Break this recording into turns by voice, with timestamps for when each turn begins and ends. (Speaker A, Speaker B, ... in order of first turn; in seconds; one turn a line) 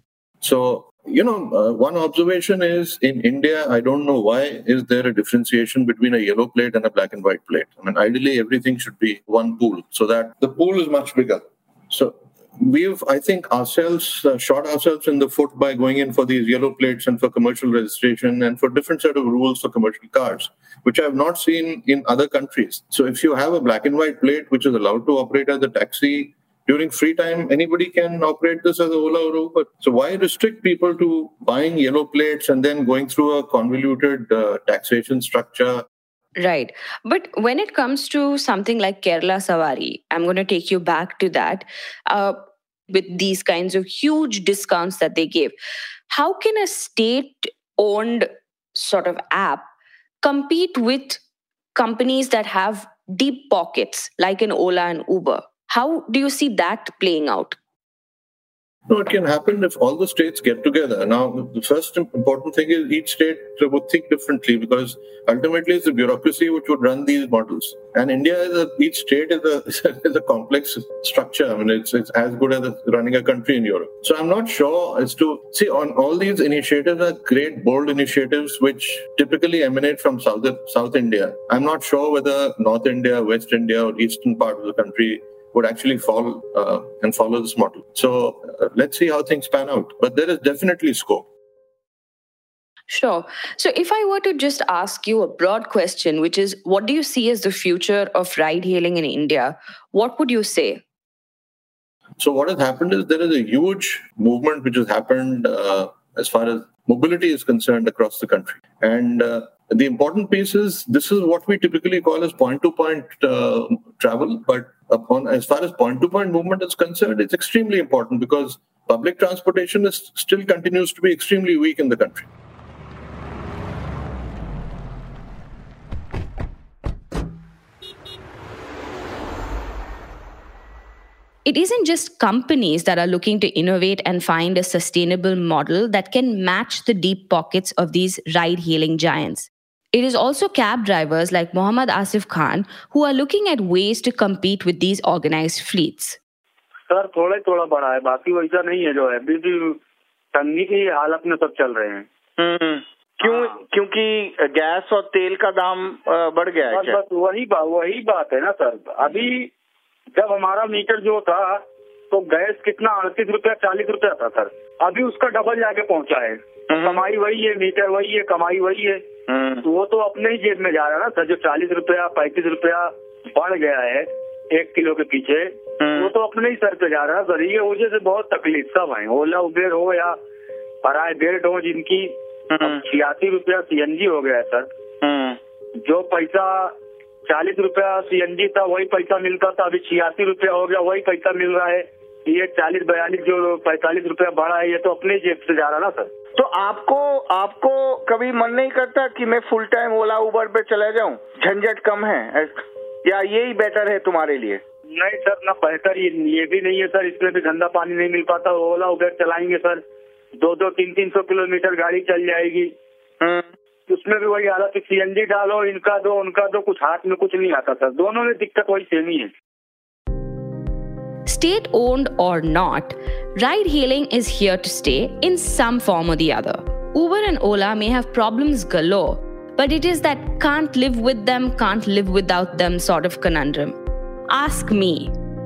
Speaker A: 0.4-35.9
Speaker B: 36.4-45.5
Speaker B: 46.1-49.7
Speaker B: 50.2-51.2
Speaker B: 51.8-57.6
Speaker A: 58.9-91.3
Speaker B: 92.9-100.8
Speaker A: 102.2-122.3
Speaker B: 131.4-146.2
Speaker C: 146.9-149.8
Speaker C: 150.3-152.1
Speaker D: 152.4-157.0
Speaker C: 156.7-159.5
Speaker C: 160.1-169.1
Speaker D: 166.7-167.1
Speaker D: 169.3-169.7
Speaker C: 169.6-180.2
Speaker D: 175.8-176.1
Speaker C: 180.8-184.7
Speaker D: 185.0-185.4
Speaker C: 185.8-186.7
Speaker C: 187.3-196.1
Speaker D: 196.4-204.6
Speaker C: 204.9-209.8
Speaker C: 210.4-212.7
Speaker D: 213.2-213.5
Speaker C: 213.9-219.3
Speaker B: 221.3-233.8
Speaker B: 234.3-235.1